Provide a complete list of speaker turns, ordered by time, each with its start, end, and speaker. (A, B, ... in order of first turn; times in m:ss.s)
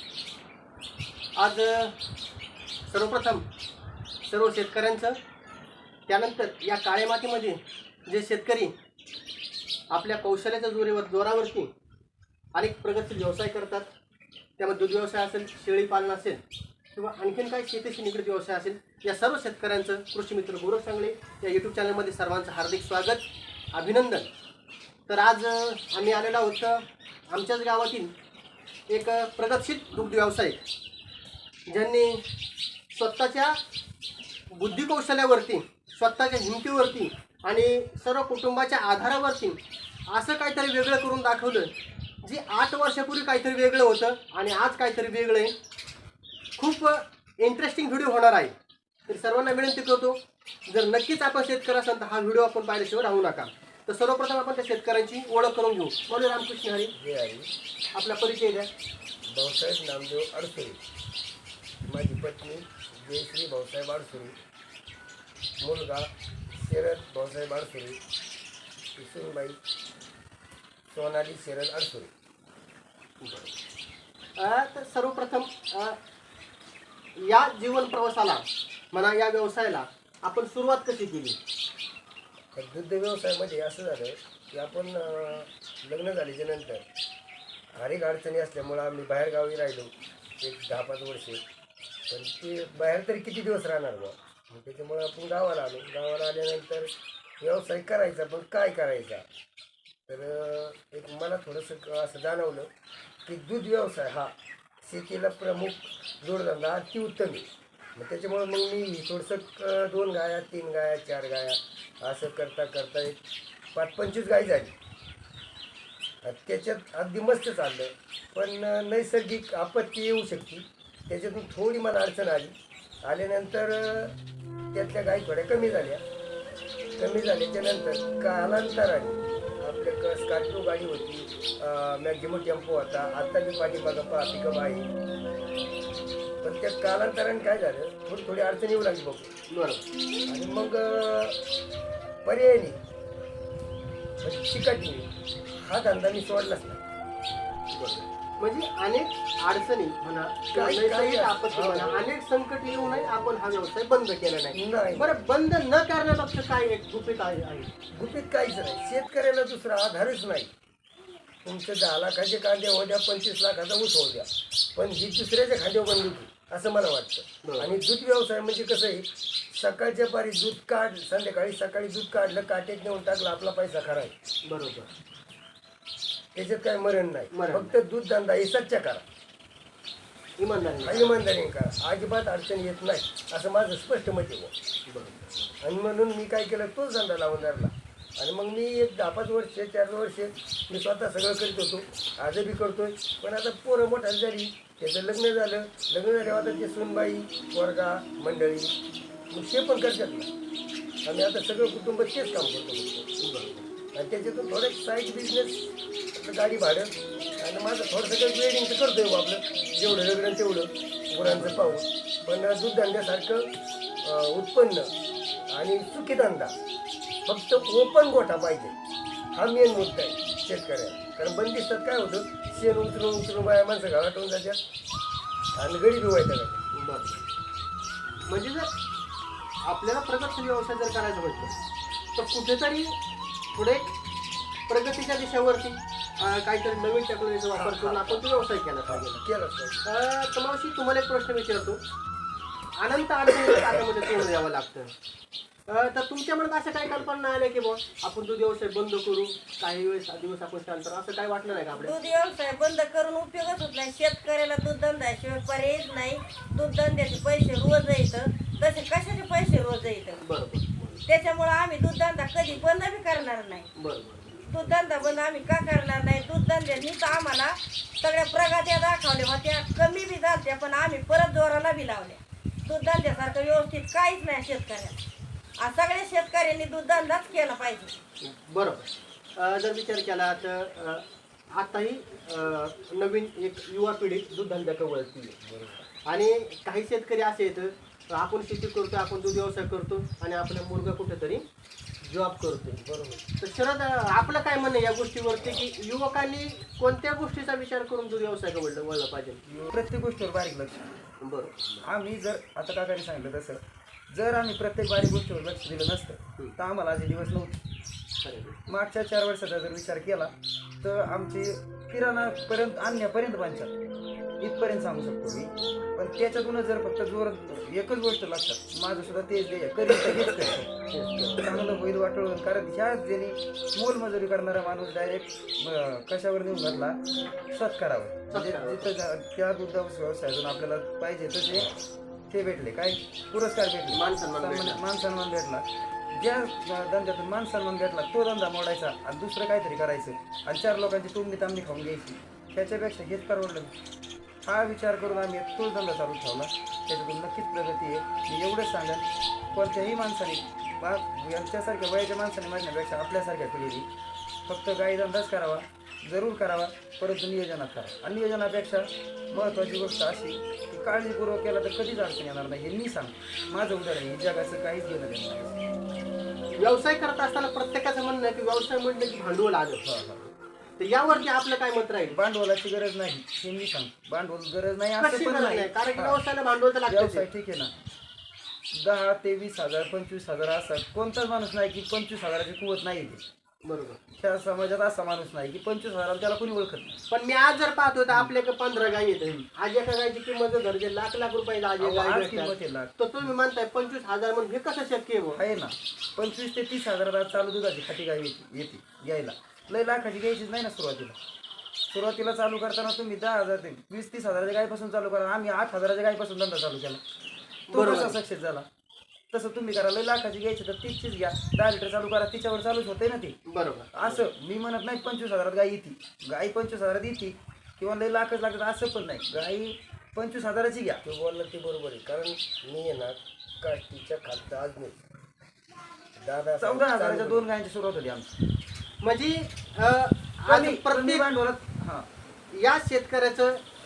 0:01.4-0:01.9 A
0:02.9-0:03.4 A
0:04.2-0:05.2 A
0:06.1-0:08.7 A
0:09.9-0:11.7 A
0:12.5-0:13.8 A
0:14.6-0:16.4 A
0:17.0-0:23.2 A
0:23.7-0:24.3 A
0:25.1-0:28.1 A
0:28.9-0:30.6 A
0:31.7-0:32.2 A
0:32.9-0:33.6 A
0:34.5-0:39.6 A
0:40.1-0:41.7 A
0:42.2-0:45.5 A
0:46.6-0:48.5 A
0:49.1-0:50.2 A
0:50.7-0:56.9 A
0:57.0-0:57.5 B
0:58.0-0:58.7 A
0:59.3-1:00.8 B
1:01.8-1:04.4 B
1:05.6-1:08.0 B
1:09.0-1:09.6 B
1:10.9-1:12.1 B
1:13.2-1:13.5 A
1:14.4-1:16.0 A
1:17.2-1:21.4 A
1:22.5-1:26.8 B
1:27.7-1:31.4 B
1:32.1-1:39.2 B
1:40.1-1:42.7 B
1:43.2-1:53.2 B
1:53.7-1:54.7 B
1:56.2-2:02.5 B
2:03.0-2:04.1 B
2:04.7-2:06.0 B
2:07.0-2:14.9 B
2:16.4-2:19.3 B
2:19.5-2:19.8 A
2:20.3-2:21.4 B
2:22.2-2:22.8 B
2:24.2-2:26.8 B
2:27.7-2:37.7 A
2:30.5-2:32.1 B
2:32.7-2:33.1 B
2:34.5-2:35.2 B
2:37.9-2:40.5 B
2:41.4-2:54.1 B
2:47.4-2:47.7 A
2:54.4-2:54.9 A
2:56.3-2:59.0 B
2:57.3-2:57.8 A
3:00.4-3:01.2 A
3:00.8-3:04.5 B
3:04.9-3:05.5 A
3:05.6-3:18.7 B
3:19.3-3:20.3 B
3:21.0-3:23.1 B
3:23.2-3:23.6 A
3:23.9-3:33.5 B
3:34.0-3:34.9 B
3:35.5-3:36.5 B
3:37.2-3:38.7 B
3:39.3-3:44.6 B
3:45.6-3:46.6 B
3:46.7-3:47.3 A
3:48.3-3:48.7 A
3:49.6-3:51.5 A
3:52.2-3:52.9 A
3:53.5-3:53.9 A
3:54.7-3:59.2 A
3:57.5-3:58.3 B
3:58.8-3:59.8 B
3:59.8-4:01.8 A
4:02.8-4:04.9 A
4:05.7-4:11.9 A
4:11.7-4:20.2 C
4:20.2-4:21.0 A
4:21.0-4:23.7 C
4:23.8-4:24.4 A
4:24.4-4:35.0 C
4:35.6-4:37.9 C
4:38.2-4:45.4 A
4:45.4-4:45.8 B
4:46.1-4:51.4 A
4:52.0-4:52.8 A
4:52.8-4:53.2 B
4:53.4-4:59.4 A
4:59.4-5:00.9 D
5:01.2-5:01.8 A
5:01.8-5:07.6 D
5:08.2-5:08.6 A
5:08.7-5:13.7 D
5:14.4-5:20.7 D
5:20.9-5:21.5 A
5:21.4-5:27.0 D
5:27.5-5:31.7 D
5:28.3-5:28.9 A
5:32.3-5:43.7 D
5:33.9-5:34.8 A
5:44.4-5:53.9 D
5:54.4-6:05.6 D
6:06.5-6:09.8 A
6:09.8-6:10.3 D
6:10.8-6:12.2 A
6:12.1-6:16.2 D
6:15.0-6:17.2 A
6:16.9-6:17.7 D
6:18.7-6:23.2 D
6:23.6-6:24.0 A
6:24.2-6:27.0 D
6:27.1-6:35.4 A
6:31.8-6:32.9 D
6:35.3-6:41.2 D
6:41.9-6:47.0 D
6:47.7-6:48.2 A
6:47.7-6:48.7 D
6:49.3-6:53.4 D
6:53.5-6:54.2 A
6:53.9-7:01.0 D
7:01.0-7:05.0 B
7:06.2-7:07.4 B
7:06.6-7:08.3 D
7:09.0-7:11.2 A
7:10.5-7:12.1 D
7:12.5-7:13.6 A